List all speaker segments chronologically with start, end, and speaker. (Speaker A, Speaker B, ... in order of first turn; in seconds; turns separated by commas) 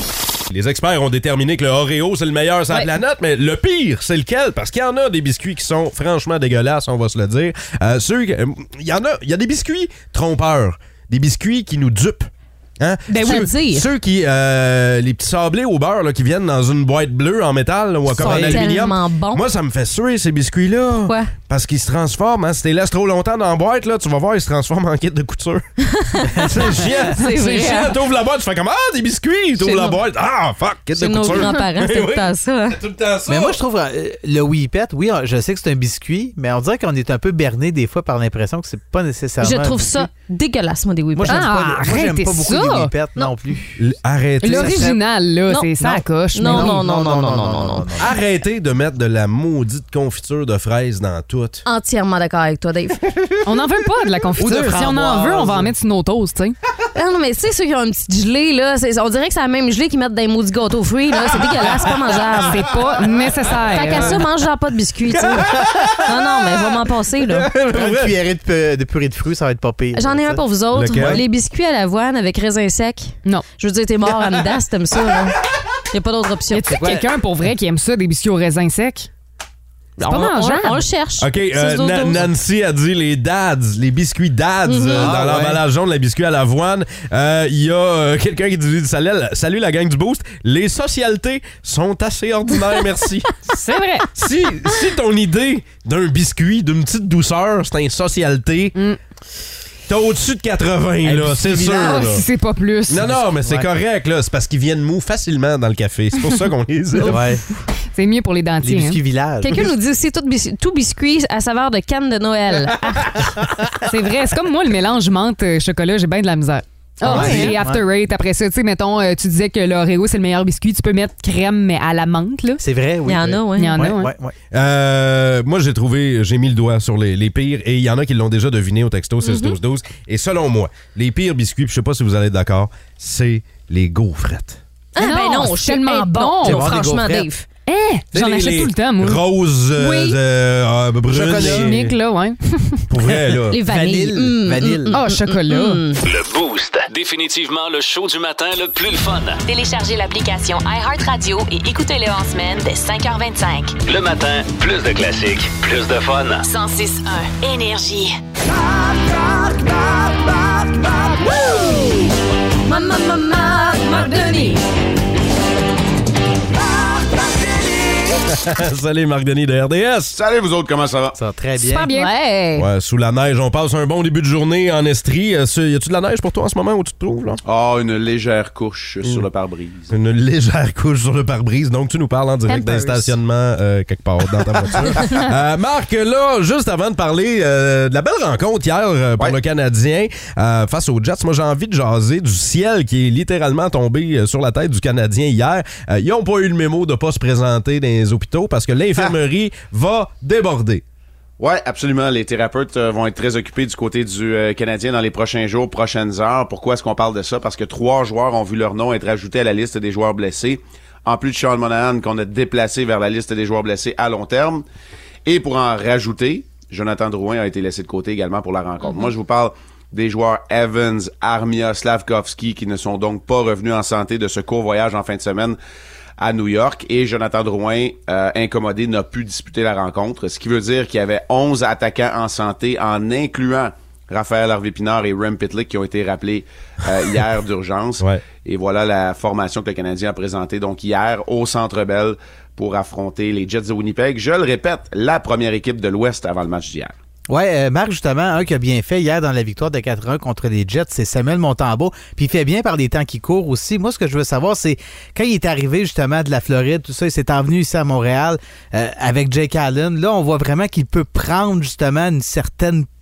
Speaker A: 0.5-25.6, Speaker B: 13.1-13.4, Speaker C: 13.1-13.9, Speaker C: 18.1-19.4, Speaker D: 18.2-18.6, Speaker C: 21.0-21.3, Speaker C: 25.8-28.0, Speaker A: 26.3-33.6, Speaker C: 29.6-30.0, Speaker C: 30.9-32.8, Speaker D: 33.3-40.1, Speaker C: 39.4-41.5, Speaker D: 41.1-43.8, Speaker B: 41.3-42.9, Speaker A: 43.8-44.8, Speaker B: 44.4-46.8, Speaker D: 44.4-45.0, Speaker C: 46.3-47.9, Speaker D: 46.4-48.1, Speaker A: 48.0-51.6, Speaker C: 51.6-53.0, Speaker B: 53.4-56.6, Speaker D: 54.4-55.7, Speaker C: 56.9-62.7, Speaker B: 62.5-64.2, Speaker C: 63.7-67.5, Speaker A: 65.2-66.1, Speaker A: 67.3-68.1, Speaker D: 67.7-70.4, Speaker C: 69.9-75.4, Speaker A: 70.7-71.2, Speaker C: 75.9-76.8, Speaker B: 76.5-79.1, Speaker D: 76.7-77.0, Speaker C: 80.0-82.3, Speaker B: 80.0-80.8, Speaker A: 81.2-93.4, Speaker C: 84.7-85.1, Speaker D: 85.0-85.6, Speaker B: 93.5-94.1, Speaker A: 94.1-98.8, Speaker A: 99.9-102.2, Speaker D: 101.0-102.1, Speaker B: 101.8-103.1, Speaker A: 102.9-107.2, Speaker D: 103.3-103.7, Speaker D: 107.0-107.4, Speaker B: 107.9-109.0, Speaker D: 108.6-109.7, Speaker C: 109.4-113.0, Speaker B: 113.8-122.6, Speaker D: 117.0-117.8, Speaker C: 117.1-117.5, Speaker D: 122.6-124.3, Speaker C: 123.0-123.8, Speaker B: 123.6-124.1, Speaker A: 124.5-134.6, Speaker C: 129.2-129.6, Speaker C: 134.9-137.4, Speaker B: 135.0-136.7, Speaker D: 136.4-137.3, Speaker B: 137.7-139.2, Speaker A: 138.1-141.9, Speaker B: 139.8-140.2, Speaker D: 141.1-141.8, Speaker B: 141.3-142.8, Speaker A: 142.9-143.6, Speaker C: 143.5-146.0, Speaker D: 143.6-145.0, Speaker B: 144.9-145.8, Speaker E: 146.0-149.4, Speaker F: 149.5-153.8, Speaker E: 153.8-156.5, Speaker F: 156.4-158.2, Speaker C: 161.2-162.1, Speaker C: 162.6-164.6, Speaker A: 168.2-170.2, Speaker G: 170.1-171.2, Speaker D: 171.2-171.9, Speaker B: 171.6-172.1, Speaker C: 171.9-172.6, Speaker A: 172.6-177.4, Speaker G: 177.4-179.9, Speaker A: 179.9-200.8, Speaker B: 182.5-183.1, Speaker G: 201.4-214.6, Speaker G: 215.2-225.6, Speaker G: 226.2-246.9, Speaker D: 247.3-262.9